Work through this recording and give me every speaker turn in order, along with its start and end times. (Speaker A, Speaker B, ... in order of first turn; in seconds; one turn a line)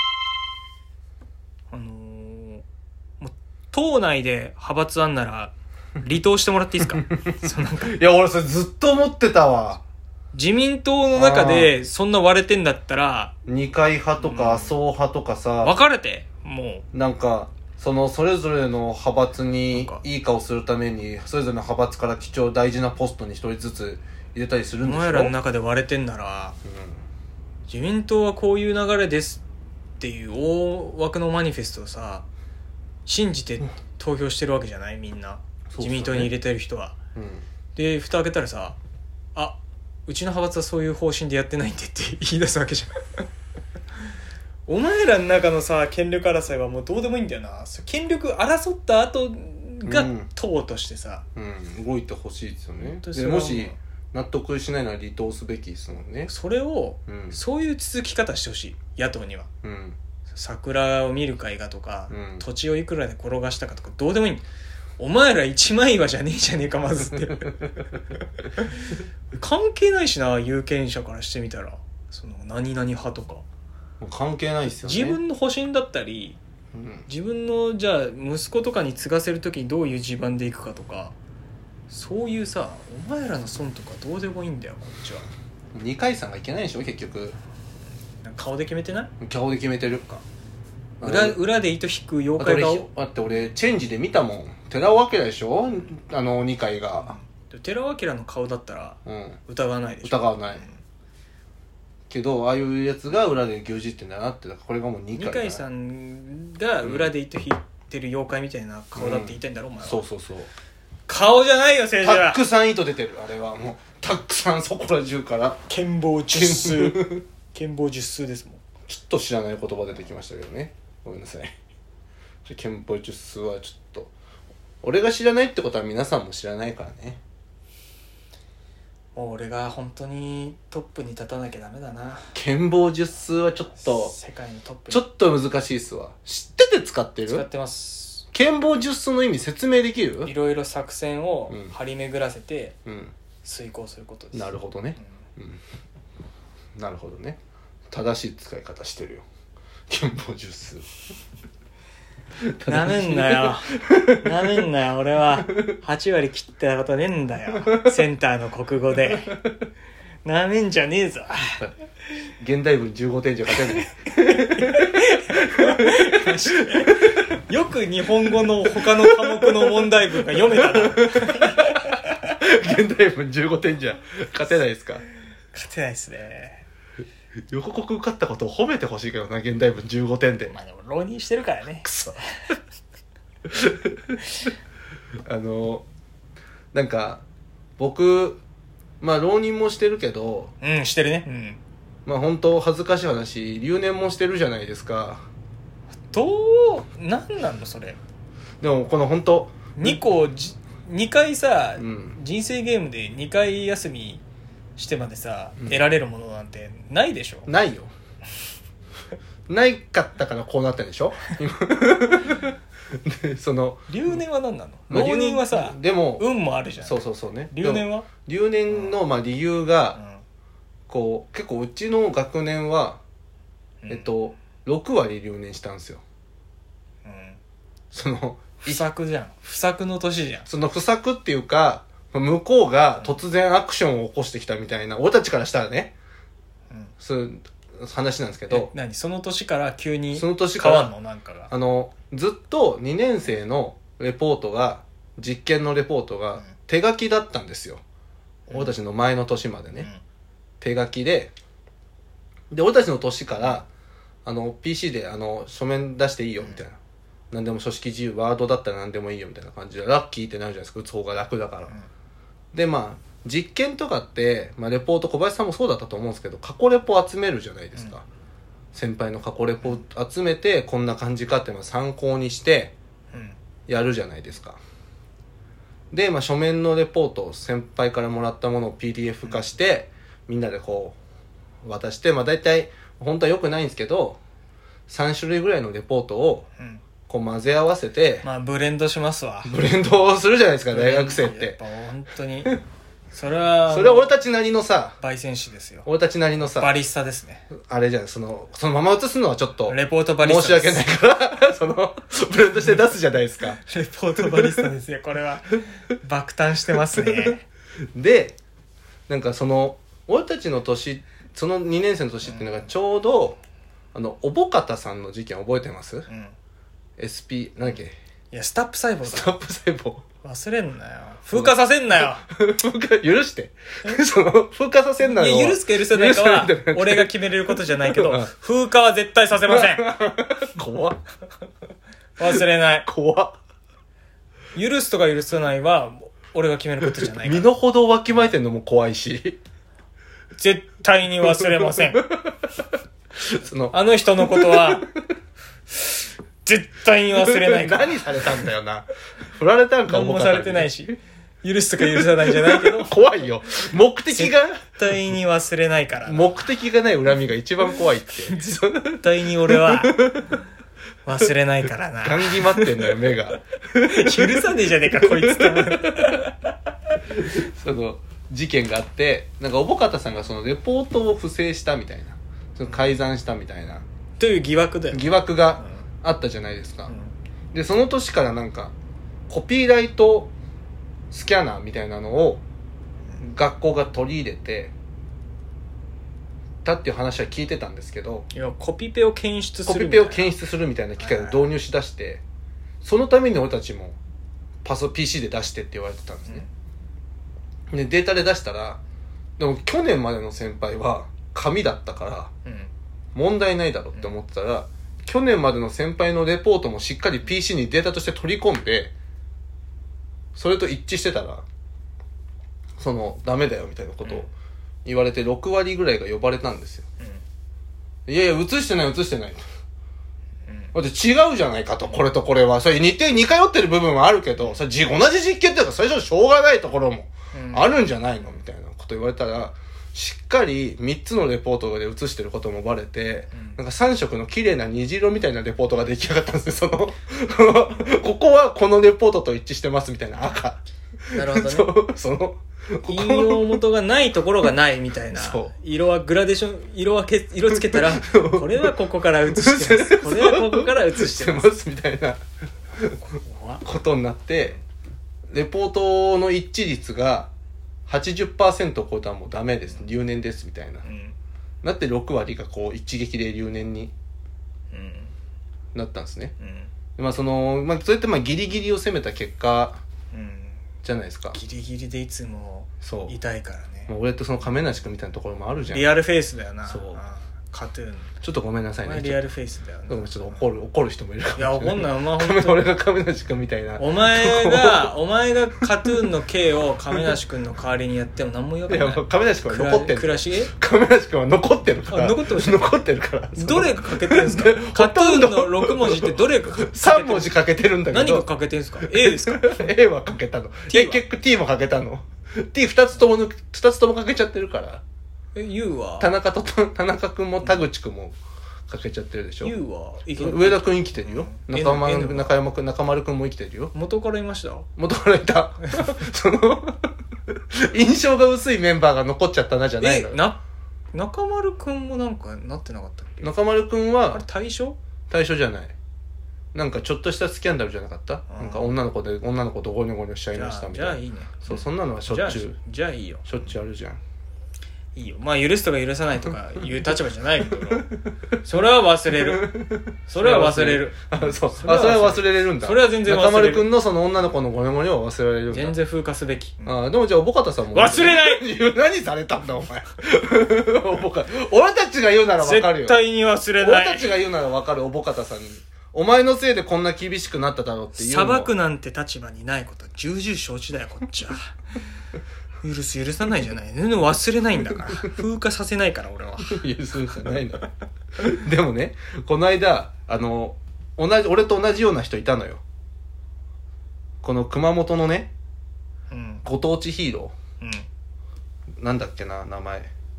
Speaker A: 1.7-2.6
Speaker A: 3.2-8.0
Speaker B: 7.0-9.8
Speaker A: 10.3-13.3
Speaker B: 11.1-11.7
Speaker B: 13.4-15.7
Speaker A: 14.2-14.8
Speaker A: 15.6-16.9
Speaker B: 16.9-25.3
Speaker A: 19.7-20.0
Speaker A: 24.8-26.6
Speaker B: 26.6-27.0
Speaker A: 27.7-29.4
Speaker A: 30.0-32.3
Speaker A: 33.0-37.0
Speaker B: 35.7-36.3
Speaker B: 37.1-37.5
Speaker A: 37.8-38.8
Speaker A: 39.3-43.3
Speaker A: 44.7-51.2
Speaker B: 49.9-50.3
Speaker B: 51.4-56.3
Speaker A: 52.8-53.8
Speaker A: 56.3-59.5
Speaker B: 57.1-57.4
Speaker B: 59.6-60.0
Speaker A: 60.3-64.4
Speaker B: 62.1-62.4
Speaker A: 65.0-67.6
Speaker A: 68.1-73.4
Speaker B: 74.0-75.2
Speaker A: 74.7-76.4
Speaker B: 76.7-77.1
Speaker A: 77.1-81.2
Speaker A: 81.9-85.3
Speaker B: 85.7-87.4
Speaker A: 88.2-89.1
Speaker B: 89.2-90.2
Speaker B: 91.0-91.4
Speaker A: 91.0-92.9
Speaker B: 92.4-97.2
Speaker A: 97.0-100.8
Speaker B: 99.0-99.4
Speaker B: 100.0-100.6
Speaker B: 102.1-105.6
Speaker A: 105.1-110.0
Speaker B: 106.8-107.1
Speaker B: 109.0-110.5
Speaker A: 111.1-112.4
Speaker B: 112.0-115.6
Speaker A: 115.7-118.6
Speaker B: 116.3-117.2
Speaker B: 118.9-121.5
Speaker B: 122.4-124.1
Speaker B: 124.8-127.2
Speaker A: 129.1-132.3
Speaker B: 132.3-134.1
Speaker A: 133.8-135.0
Speaker B: 134.9-137.4
Speaker A: 137.3-138.3
Speaker B: 138.3-140.3
Speaker A: 140.2-142.8
Speaker B: 141.5-141.7
Speaker B: 142.8-143.1
Speaker A: 143.4-144.5
Speaker B: 144.3-145.6
Speaker B: 146.8-147.4
Speaker B: 147.9-149.2
Speaker B: 149.9-150.9
Speaker B: 152.4-154.3
Speaker A: 152.7-159.3
Speaker A: 160.2-161.6
Speaker B: 162.4-167.1
Speaker A: 164.4-172.3
Speaker B: 168.7-171.8
Speaker B: 172.4-175.0
Speaker A: 175.5-176.6
Speaker B: 177.5-180.5
Speaker A: 180.5-182.6
Speaker B: 181.8-182.2
Speaker B: 183.5-184.2
Speaker B: 185.2-185.9
Speaker B: 186.7-187.2
Speaker B: 187.8-188.4
Speaker B: 189.0-190.5
Speaker A: 190.6-191.6
Speaker B: 192.0-195.2
Speaker A: 196.1-198.0
Speaker B: 198.6-200.0
Speaker A: 199.8-204.2
Speaker B: 201.8-202.2
Speaker A: 204.8-207.5
Speaker B: 207.5-207.9
Speaker B: 209.5-214.2
Speaker A: 213.9-218.1
Speaker B: 214.9-216.3
Speaker B: 216.8-220.0
Speaker A: 218.7-219.0
Speaker A: 219.9-220.2
Speaker B: 220.9-223.0
Speaker A: 223.8-224.1
Speaker B: 223.9-226.0
Speaker A: 227.0-227.4
Speaker B: 227.9-228.8
Speaker A: 228.6-230.5
Speaker B: 230.5-235.9
Speaker B: 237.0-238.7
Speaker A: 238.5-241.5
Speaker B: 240.1-240.9
Speaker B: 241.5-247.8
Speaker B: 248.5-249.9
Speaker A: 248.5-248.8
Speaker B: 250.6-251.3
Speaker B: 252.5-253.7
Speaker B: 254.2-256.8
Speaker B: 257.3-261.7
Speaker B: 262.5-268.0
Speaker B: 268.7-272.7
Speaker A: 273.1-273.4
Speaker B: 273.7-274.6
Speaker B: 275.9-281.0
Speaker B: 281.6-284.2
Speaker B: 284.9-286.4
Speaker B: 287.1-288.2
Speaker A: 288.2-289.6
Speaker B: 289.4-291.6
Speaker A: 290.7-292.6
Speaker A: 293.1-294.1
Speaker B: 293.7-294.9
Speaker A: 295.0-295.9
Speaker B: 295.8-296.7
Speaker A: 296.4-297.5
Speaker B: 297.5-303.6
Speaker A: 299.7-300.9
Speaker A: 303.6-307.4
Speaker B: 304.3-304.6
Speaker B: 306.9-307.3
Speaker B: 307.9-308.4
Speaker B: 309.1-313.4
Speaker A: 312.2-312.7
Speaker B: 313.9-316.1
Speaker A: 316.1-316.3
Speaker B: 317.0-317.9
Speaker A: 318.3-319.4
Speaker B: 319.0-320.0
Speaker A: 320.2-322.2
Speaker B: 322.3-328.3
Speaker A: 325.0-329.9
Speaker B: 329.5-331.0
Speaker A: 332.2-332.9
Speaker B: 332.2-333.4
Speaker A: 334.5-337.5
Speaker B: 337.1-339.4
Speaker A: 340.4-342.0
Speaker B: 341.6-342.3
Speaker B: 343.3-345.0
Speaker A: 343.7-344.9
Speaker A: 345.7-348.4
Speaker B: 347.1-350.7
Speaker A: 349.9-353.0
Speaker B: 352.0-354.6
Speaker A: 354.1-356.3
Speaker B: 356.0-360.4
Speaker A: 358.3-359.9
Speaker A: 361.0-362.9
Speaker B: 362.0-366.3
Speaker A: 363.8-366.5
Speaker B: 367.1-373.8
Speaker A: 372.7-372.9
Speaker A: 374.2-375.8
Speaker B: 374.9-376.9
Speaker A: 376.9-377.1
Speaker B: 377.5-378.7
Speaker B: 379.3-380.3
Speaker B: 381.1-382.4
Speaker B: 383.2-384.7
Speaker B: 386.6-388.3
Speaker A: 388.3-390.3
Speaker B: 389.7-392.2
Speaker A: 391.0-391.5
Speaker B: 392.8-394.0
Speaker B: 394.6-396.4
Speaker B: 397.7-398.8
Speaker B: 399.4-402.3
Speaker A: 402.4-402.7
Speaker B: 403.1-408.9
Speaker B: 410.3-411.4
Speaker B: 412.8-414.3
Speaker B: 414.8-416.9
Speaker B: 418.1-419.4
Speaker A: 420.5-420.7
Speaker B: 420.7-443.6
Speaker A: 427.3-427.7
Speaker A: 433.3-433.6
Speaker A: 441.1-441.7
Speaker A: 442.9-451.5
Speaker B: 445.1-445.5
Speaker B: 447.5-448.7
Speaker B: 449.3-452.2
Speaker A: 453.0-453.6
Speaker B: 453.6-454.6
Speaker B: 455.3-457.3
Speaker B: 457.9-460.8
Speaker A: 460.8-461.2
Speaker B: 461.6-463.9
Speaker A: 464.7-465.1
Speaker B: 465.7-466.3
Speaker A: 466.4-466.7
Speaker B: 467.0-469.8
Speaker A: 470.1-470.6
Speaker B: 470.8-471.4
Speaker A: 471.3-473.9
Speaker B: 472.8-473.1
Speaker B: 473.9-475.9
Speaker A: 475.7-478.1
Speaker B: 476.6-477.0
Speaker B: 478.2-479.3
Speaker A: 478.8-480.4
Speaker B: 479.9-484.9
Speaker A: 481.4-482.7
Speaker A: 483.8-490.5
Speaker B: 488.7-498.3
Speaker A: 491.9-492.8
Speaker A: 493.3-497.4
Speaker A: 497.9-499.7
Speaker B: 498.8-504.8
Speaker A: 500.7-501.0
Speaker A: 505.3-506.1
Speaker B: 506.0-508.2
Speaker B: 508.7-509.6
Speaker A: 509.4-512.4
Speaker B: 510.1-513.7
Speaker A: 513.7-514.7
Speaker B: 514.8-516.9
Speaker B: 517.5-520.2
Speaker A: 519.8-520.4
Speaker A: 520.9-523.3
Speaker B: 523.2-524.2
Speaker A: 524.1-524.8
Speaker B: 525.1-525.7
Speaker B: 526.5-532.5
Speaker A: 528.3-528.8
Speaker A: 530.3-533.3
Speaker B: 533.2-534.0
Speaker A: 535.0-537.9
Speaker A: 538.4-539.5
Speaker B: 539.2-545.7
Speaker A: 540.1-543.7
Speaker A: 545.5-546.8
Speaker B: 546.6-553.0
Speaker A: 547.7-548.5
Speaker A: 552.4-554.2
Speaker B: 553.6-558.5
Speaker A: 557.9-561.5
Speaker A: 562.6-566.6
Speaker B: 566.5-567.6
Speaker A: 567.3-567.6
Speaker B: 568.2-572.6
Speaker B: 574.2-575.3
Speaker A: 576.1-576.4
Speaker B: 576.4-577.4
Speaker A: 577.6-577.9
Speaker B: 578.8-579.9